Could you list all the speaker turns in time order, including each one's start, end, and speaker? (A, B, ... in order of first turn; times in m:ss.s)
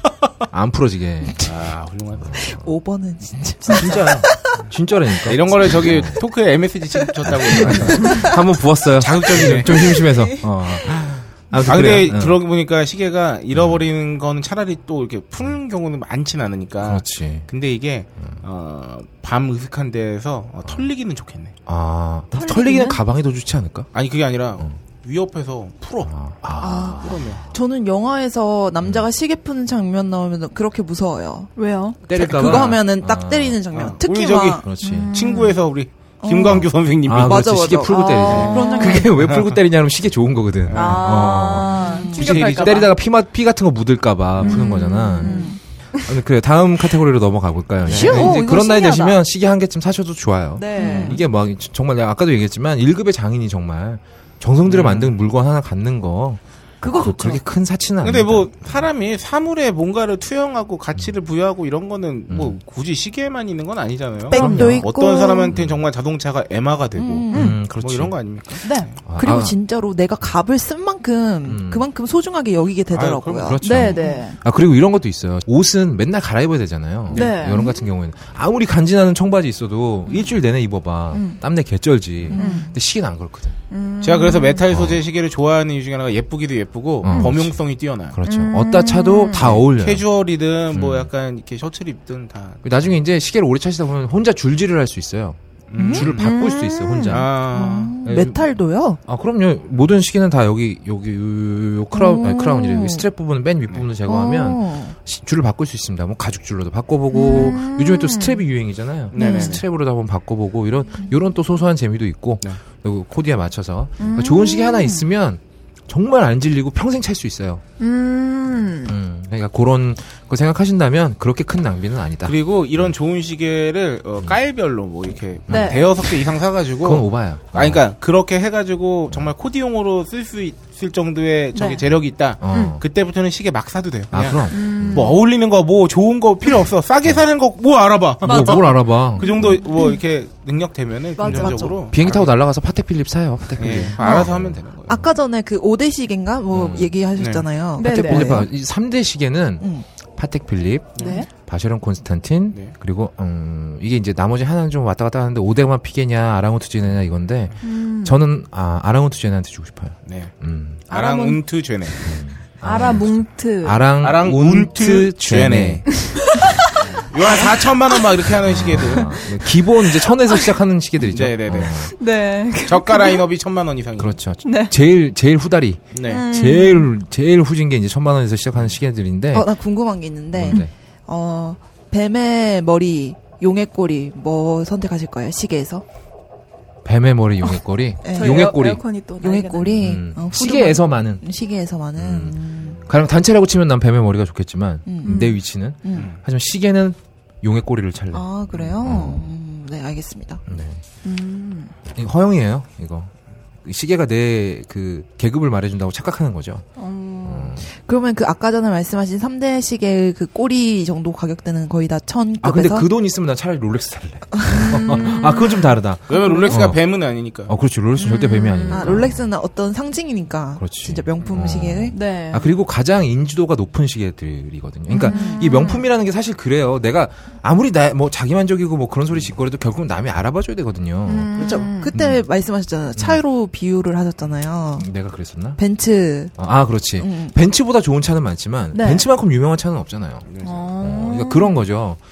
0:00.5-0:01.6 A
0:01.4-0:02.5 B
0:02.2-0:02.7 A
0:02.4-0:04.5 C
0:03.6-0:04.1 D
0:03.6-0:06.2 A
0:05.3-0:08.4 B
0:07.2-0:12.4 A
0:07.7-0:08.1 C
0:08.9-0:10.0 B
0:10.0-0:10.3 C
0:11.6-0:21.5 B
0:13.5-0:13.9 A
0:16.8-0:17.5 A
0:21.6-0:23.9 A
0:22.3-0:23.0 D
0:23.9-0:26.1 B
0:26.0-0:27.4 A
0:26.6-0:31.5 C
0:27.0-0:27.4 B
0:31.6-0:32.0 D
0:32.0-0:33.6 A
0:32.1-0:34.6 C
0:32.4-0:32.8 B
0:33.7-0:37.5 B
0:34.6-0:35.5 A
0:34.8-0:35.6 D
0:36.2-0:39.1 C
0:36.5-0:58.9 A
0:38.1-0:39.1 D
0:38.3-0:38.6 B
0:39.2-0:39.6 B
0:40.6-0:41.5 B
0:40.7-0:42.9 D
0:41.7-0:42.3 C
0:42.1-0:42.9 B
0:44.4-0:45.6 D
0:44.4-0:45.6 C
0:47.8-0:48.4 B
0:47.9-0:49.2 D
0:47.9-0:48.5 C
0:50.6-0:51.1 D
0:50.8-0:51.2 C
0:50.9-0:51.2 B
0:54.6-0:55.1 B
0:56.8-0:57.4 C
0:56.8-0:57.4 D
0:58.0-1:09.0 B
1:02.3-1:02.6 A
1:04.3-1:05.5 C
1:04.3-1:04.8 D
1:04.4-1:04.8 A
1:05.5-1:05.8 A
1:07.0-1:07.6 C
1:07.3-1:07.6 D
1:07.3-1:08.1 A
1:08.6-1:08.9 D
1:09.0-1:09.6 A
1:09.2-1:14.2 C
1:11.4-1:11.8 A
1:12.9-1:13.6 B
1:13.4-1:23.6 A
1:13.6-1:14.4 D
1:17.1-1:17.5 B
1:17.1-1:17.8 D
1:20.1-1:20.4 D
1:21.1-1:21.4 D
1:22.3-1:22.7 C
1:22.3-1:22.7 D
1:23.7-1:24.6 D
1:24.0-1:28.2 B
1:24.7-1:25.0 A
1:27.0-1:27.6 A
1:27.1-1:27.3 D
1:28.1-1:30.0 A
1:28.2-1:29.6 D
1:29.3-1:32.9 B
1:30.7-1:31.1 A
1:32.6-1:37.4 A
1:35.7-1:36.4 B
1:35.8-1:36.1 C
1:36.2-1:37.2 D
1:37.1-1:37.9 B
1:37.5-1:39.0 C
1:38.0-1:38.5 A
1:39.0-1:57.6 A
1:41.9-1:43.0 C
1:44.0-1:44.9 C
1:47.1-1:48.4 D
1:49.1-1:49.6 B
1:49.1-1:49.6 C
1:54.0-1:55.1 D
1:57.8-1:58.9 D
1:58.8-2:02.9 A
2:02.2-2:22.3 B
2:05.5-2:06.0 A
2:05.5-2:05.9 D
2:06.8-2:07.8 A
2:11.5-2:11.8 D
2:12.4-2:12.8 A
2:12.5-2:12.8 D
2:14.1-2:15.2 A
2:14.5-2:15.2 D
2:18.2-2:19.6 A
2:18.3-2:18.6 D
2:19.2-2:19.5 D
2:21.2-2:21.8 D
2:21.2-2:25.1 A
2:23.6-2:25.0 B
2:24.9-2:28.5 C
2:26.5-2:26.9 A
2:27.2-2:27.4 B
2:27.8-2:40.9 A
2:27.8-2:28.4 D
2:30.9-2:31.2 B
2:31.0-2:31.3 D
2:37.6-2:38.2 D
2:40.0-2:40.3 B
2:40.9-2:41.4 D
2:40.9-2:42.1 B
2:42.0-2:45.9 A
2:42.6-2:43.8 D
2:44.0-2:46.0 B
2:46.1-2:47.6 D
2:46.6-2:49.2 B
2:48.3-2:52.0 A
2:49.6-2:50.5 D
2:51.1-2:51.8 B
2:51.7-2:53.2 D
2:52.6-2:54.2 B
2:54.0-2:59.5 A
2:54.4-2:54.7 D
2:55.9-2:56.3 B
2:56.0-2:56.9 D
2:59.3-3:05.8 C
3:00.3-3:00.7 A
3:06.8-3:08.8 A
3:08.0-3:08.5 C
3:08.1-3:09.8 D
3:09.2-3:12.8 C
3:09.7-3:11.2 A
3:12.0-3:19.2 A
3:14.8-3:16.1 C
3:18.1-3:20.4 C
3:20.4-3:20.8 A
3:21.0-3:21.7 D
3:21.9-3:23.1 A
3:23.6-3:26.7 A
3:26.8-3:27.5 D
3:27.2-3:27.7 A
3:27.7-3:32.9 C
3:32.4-3:36.8 A
3:34.3-3:35.2 C
3:34.6-3:35.7 D
3:36.1-3:37.5 B
3:36.1-3:36.6 C
3:37.5-3:39.2 A
3:38.0-3:41.9 C
3:38.4-3:39.0 D
3:40.6-3:52.2 A
3:41.9-3:42.5 D
3:44.9-3:45.8 C
3:44.9-3:45.8 D
3:51.0-3:51.9 D
3:51.3-3:54.9 C
3:54.8-3:55.6 A
3:55.6-3:56.3 C
3:56.4-4:02.0 A
3:57.0-3:57.3 C
3:58.7-3:59.0 D
4:00.2-4:00.6 B
4:00.4-4:01.6 D